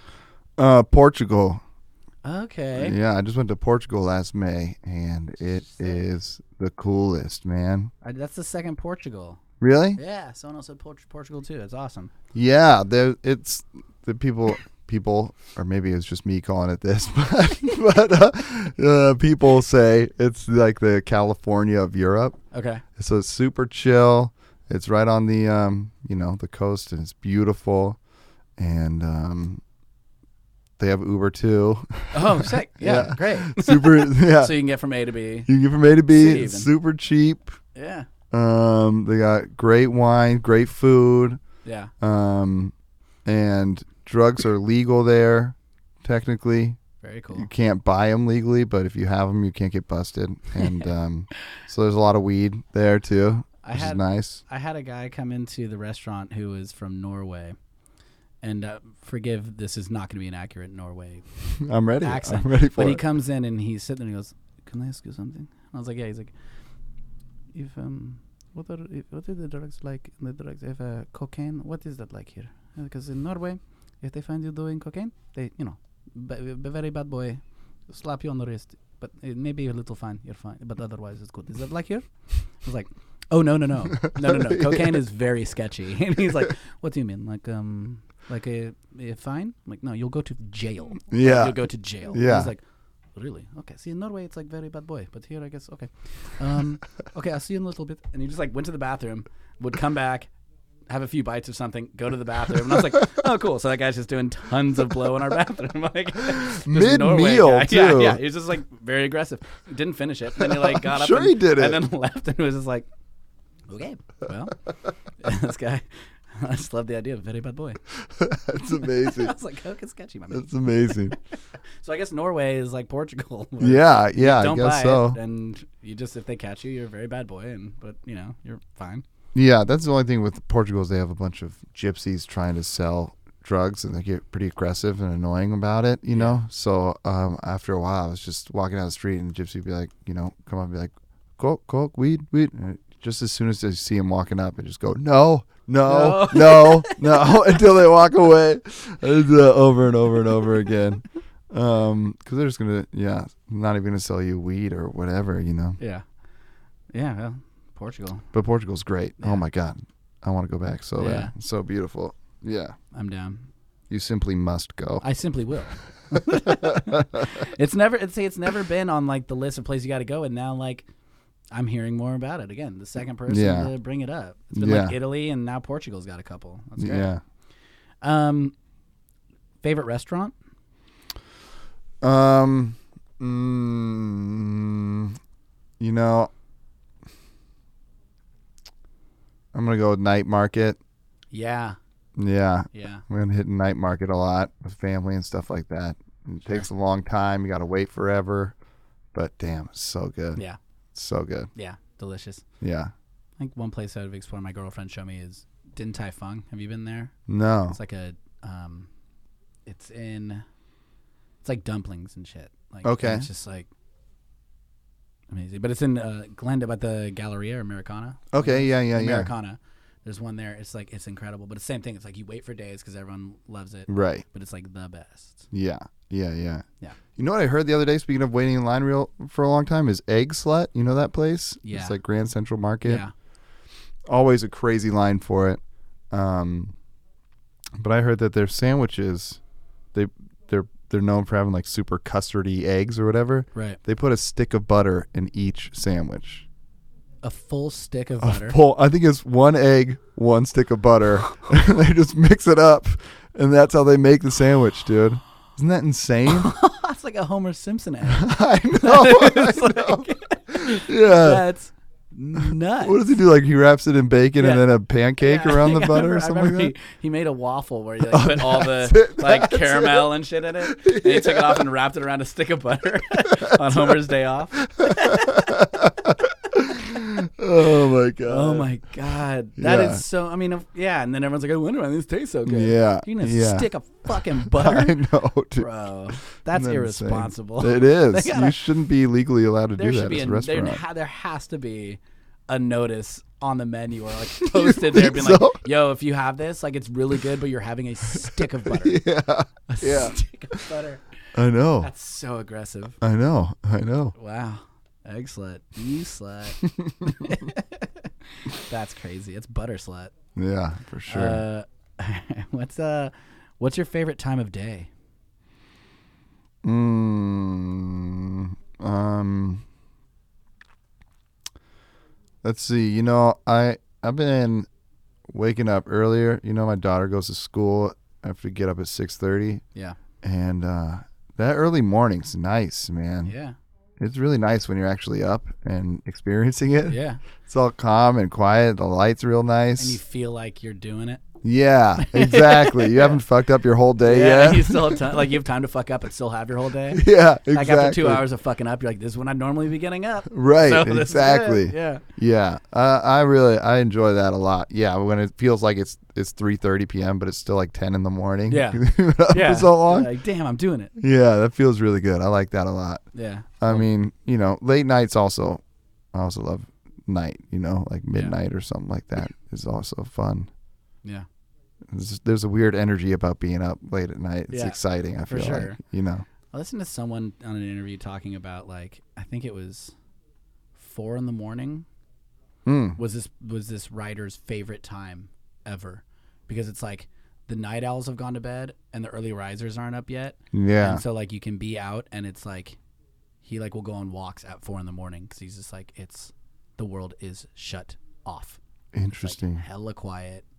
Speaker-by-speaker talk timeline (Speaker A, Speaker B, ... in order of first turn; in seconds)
Speaker A: 0.6-1.6, 2.8-7.9, 9.6-10.0, 12.3-22.4, 23.0-28.0, 28.6-29.6, 30.8-34.5, 35.5-37.6, 38.3-41.4, 42.0-42.7, 43.2-46.8, 47.4-54.4, 61.6-63.0, 84.0-85.0, 91.1-92.5, 106.4-108.2, 110.4-111.8, 118.0-119.3, 120.3-121.2, 123.6-125.2, 129.3-155.8, 158.3-162.8, 163.9-165.1, 166.5-167.4, 173.3-173.7, 174.6-175.0, 176.8-177.2, 182.0-185.2, 185.8-186.3, 189.5-190.8, 192.2-198.6, 199.1-200.4, 200.9-201.5, 202.6-202.9, 207.3-207.8, 212.8-213.3, 218.3-219.3, 223.9-224.2, 225.5-226.7, 227.2-233.0, 234.1-235.6, 236.1-236.7, 237.8-239.4, 239.9-246.5, 248.2-256.5, 258.1-261.4, 262.8-266.7, 268.1-271.7, 273.4-274.0, 274.6-278.7, 279.6-280.0, 282.5-285.7, 286.5-290.8, 294.4-295.6, 298.6-300.6, 301.4-301.9, 303.0-304.1, 306.6-307.1, 310.4-311.4, 316.6-319.6, 322.4-324.7, 325.3-329.6, 330.2-333.3, 334.0-340.0, 341.4-345.2, 346.9-348.2, 350.3-360.1, 361.0-363.0, 363.6-365.6, 366.1-370.5, 371.9-376.2, 382.6-383.0, 390.5-391.0, 398.9-399.6
Speaker B: 2.2-3.0, 5.7-6.0, 8.0-9.4, 10.0-12.1, 22.5-22.8, 32.1-35.5, 36.1-36.7, 37.8-38.1, 41.6-41.9, 47.0-47.5, 53.6-57.6, 58.4-61.2, 62.0-66.3, 67.5-82.1, 82.6-92.6, 93.2-100.3, 100.9-112.9, 113.7-114.6, 115.2-117.8, 118.8-121.1, 121.8-129.0, 136.1-136.4, 145.8-147.6, 155.8-156.0, 156.9-158.3, 161.0-161.3, 162.9-163.5, 165.0-170.9, 171.5-177.1, 178.0-178.5, 179.6-180.3, 191.3-191.8, 192.7-193.0, 201.6-202.4, 203.4-207.1, 207.7-208.9, 209.7-210.4, 211.4-213.7, 215.3-225.5, 231.6-231.9, 232.8-233.1, 247.2-248.6, 256.3-263.1, 264.4-264.7, 265.2-275.5, 276.7-277.0, 278.2-285.0, 285.6-288.6, 289.8-299.0, 299.7-301.1, 301.8-303.0, 304.2-310.1, 311.1-314.9, 333.2-333.6, 336.9-337.2, 339.8-341.2, 342.0-343.2, 344.0-352.0, 358.5-360.9, 363.1-363.9, 374.5-375.8, 376.5-379.9, 380.8-381.9, 383.0-392.8, 393.4-398.6, 399.2-400.4